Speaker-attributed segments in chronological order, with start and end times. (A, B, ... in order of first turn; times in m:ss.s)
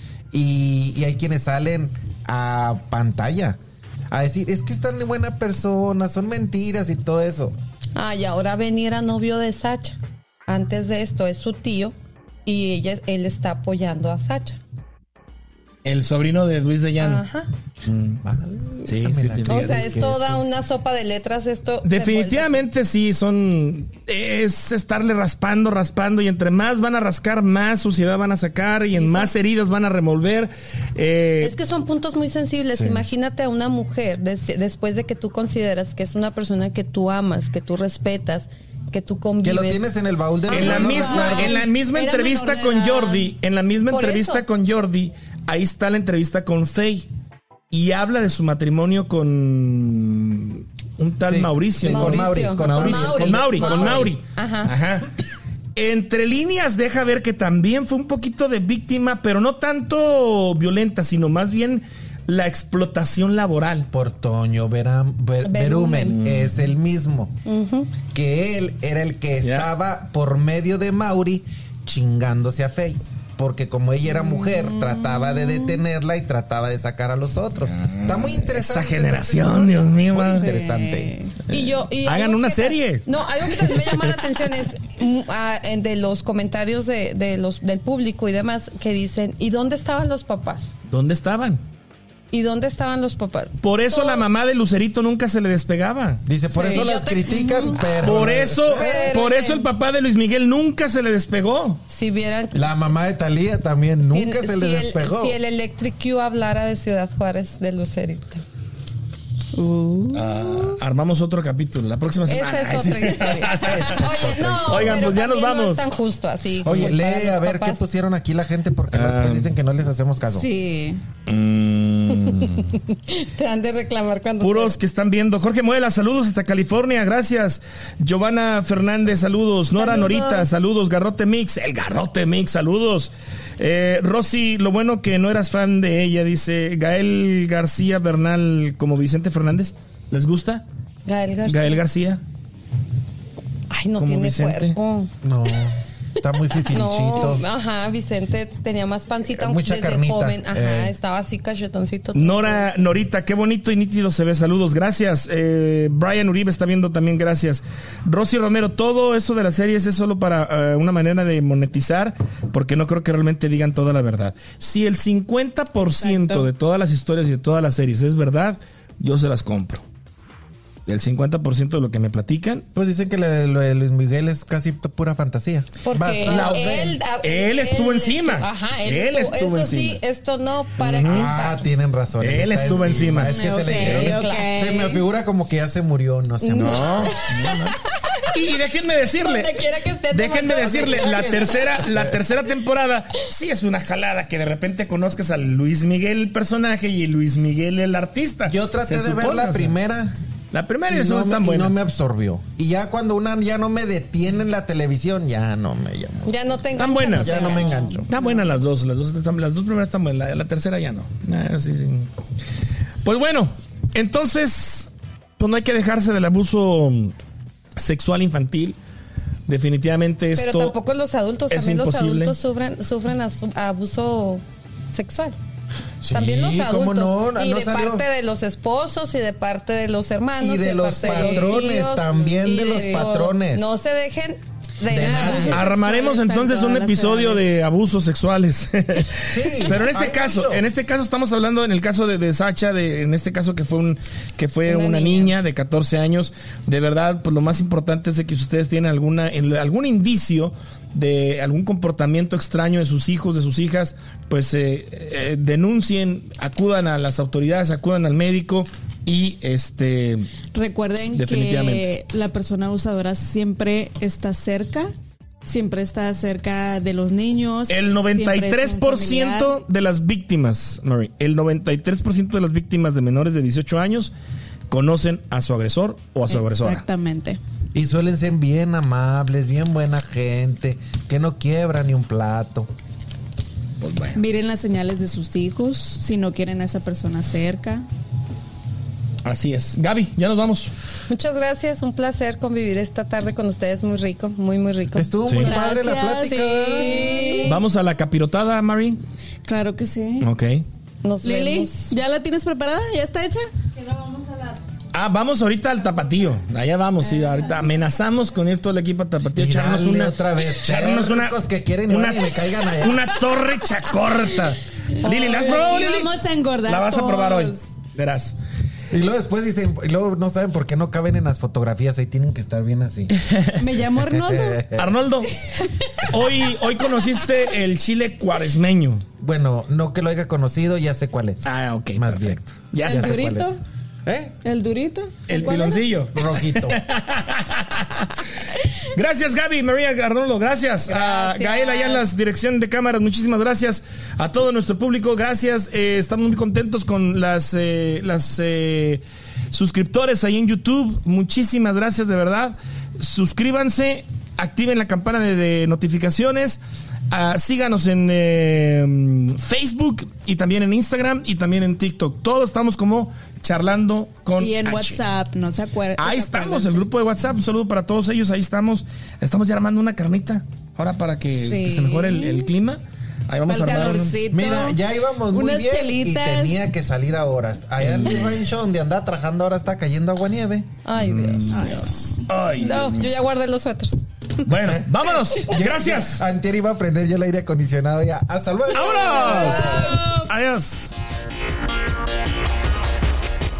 0:00.3-0:03.6 A
0:04.1-0:07.6 A
0:08.0-0:12.0 B
0:12.5-0:14.6 B
0:15.8-0:17.2 C
0:17.0-0:17.5 B
0:17.9-0:18.2 C
0:18.2-0:20.4 A
0:18.8-0:19.9 C
0:19.5-0:22.6 B
0:21.8-0:31.6 C
0:28.9-0:29.3 B
0:31.4-0:39.8 B
0:32.7-0:33.0 A
0:39.4-0:41.6 A
0:40.5-0:43.3 D
0:40.5-0:47.1 C
0:43.9-0:44.4 B
0:47.7-0:55.1 C
0:51.2-0:54.2 A
0:51.9-0:54.7 B
0:55.8-1:03.9 C
1:03.9-1:07.4 A
1:05.4-1:06.2 B
1:06.0-1:06.6 C
1:07.5-1:07.9 B
1:08.1-1:21.2 A
1:09.4-1:09.7 C
1:14.1-1:15.8 D
1:17.7-1:20.5 C
1:20.4-1:21.4 D
1:21.5-1:30.7 B
1:21.5-1:24.1 C
1:30.9-1:31.6 C
1:32.3-1:34.3 B
1:33.6-1:36.2 C
1:36.3-1:39.0 A
1:36.5-1:39.7 B
1:36.7-1:37.8 D
1:38.0-1:41.8 C
1:38.8-1:39.3 D
1:41.9-1:42.8 B
1:42.5-1:45.4 A
1:44.0-1:48.4 B
1:49.5-1:50.3 D
1:50.1-1:54.1 C
1:52.3-1:57.8 B
1:53.5-1:55.2 A
1:54.7-1:55.9 C
1:56.6-2:00.5 A
1:58.9-1:59.5 C
2:00.3-2:01.0 D
2:01.3-2:02.8 C
2:02.1-2:04.8 B
2:04.4-2:20.6 C
2:09.8-2:10.4 D
2:21.1-2:21.8 B
2:21.5-2:22.2 C
2:23.7-2:25.1 B
2:24.0-2:24.8 C
2:25.2-2:27.4 A
2:26.7-2:32.7 B
2:29.4-2:30.9 A
2:32.2-2:49.8 C
2:46.0-2:46.5 D
2:50.9-2:52.7 C
2:52.8-2:57.0 A
2:55.8-3:01.6 B
2:56.2-3:00.0 C
3:00.8-3:01.3 C
3:01.0-3:07.2 A
3:02.2-3:03.4 C
3:03.2-3:05.0 D
3:03.6-3:05.0 B
3:06.4-3:07.6 B
3:06.6-3:07.7 C
3:08.3-3:19.7 C
3:09.2-3:11.3 B
3:10.4-3:12.2 A
3:18.5-3:20.2 A
3:20.5-3:21.8 C
3:20.9-3:28.1 A
3:26.3-3:28.0 B
3:26.8-3:27.6 C
3:28.1-3:32.1 C
3:33.0-3:37.2 C
3:37.8-3:38.8 C
3:39.5-3:40.8 C
3:40.4-3:44.4 B
3:41.5-3:42.4 C
3:44.9-3:45.4 B
3:46.0-3:48.0 A
3:46.1-3:55.6 B
3:50.4-3:53.7 A
3:51.0-3:51.6 D
3:52.7-3:53.1 D
3:54.9-3:55.6 A
3:54.9-3:57.4 D
3:55.5-4:20.3 C
3:59.3-4:00.7 A
4:04.7-4:05.3 B
4:20.5-4:24.9 D
4:21.2-4:21.9 C
4:25.4-4:29.5 D
4:27.7-4:34.1 C
4:34.7-4:36.8 C
4:36.3-4:37.4 D
4:37.7-4:42.7 A
4:43.8-4:44.2 C
4:44.2-4:47.9 D
4:49.2-4:50.7 C
4:51.1-4:55.1 B
4:55.0-4:57.3 A
4:55.3-4:55.6 C
4:55.4-4:57.6 D
4:56.3-4:57.6 B
4:57.4-4:59.0 C
4:59.4-5:00.3 D
5:00.2-5:00.6 C
5:01.0-5:01.9 B
5:01.2-5:04.5 D
5:04.9-5:18.4 C
5:09.4-5:13.2 A
5:14.9-5:17.6 D
5:18.9-5:23.1 A
5:23.1-5:23.7 C
5:23.6-5:24.6 D
5:24.0-5:25.0 A
5:24.8-5:29.0 C
5:29.2-5:34.4 A
5:31.4-5:33.3 C
5:32.8-5:33.6 D
5:34.4-5:35.8 D
5:35.3-5:56.6 C
5:36.1-5:36.8 A
5:40.9-5:42.0 D
5:57.1-6:05.0 C
6:04.4-6:06.9 D
6:06.0-6:14.2 C
6:11.4-6:12.5 D
6:13.5-6:14.8 D
6:14.3-6:20.8 A
6:15.3-6:16.6 D
6:17.8-6:18.4 C
6:20.8-6:21.7 B
6:21.0-6:23.1 C
6:21.5-6:21.9 D
6:22.6-6:24.4 B
6:24.4-6:26.2 C
6:24.6-6:30.0 A
6:28.7-6:30.9 C
6:29.0-6:30.3 D
6:29.1-6:30.0 B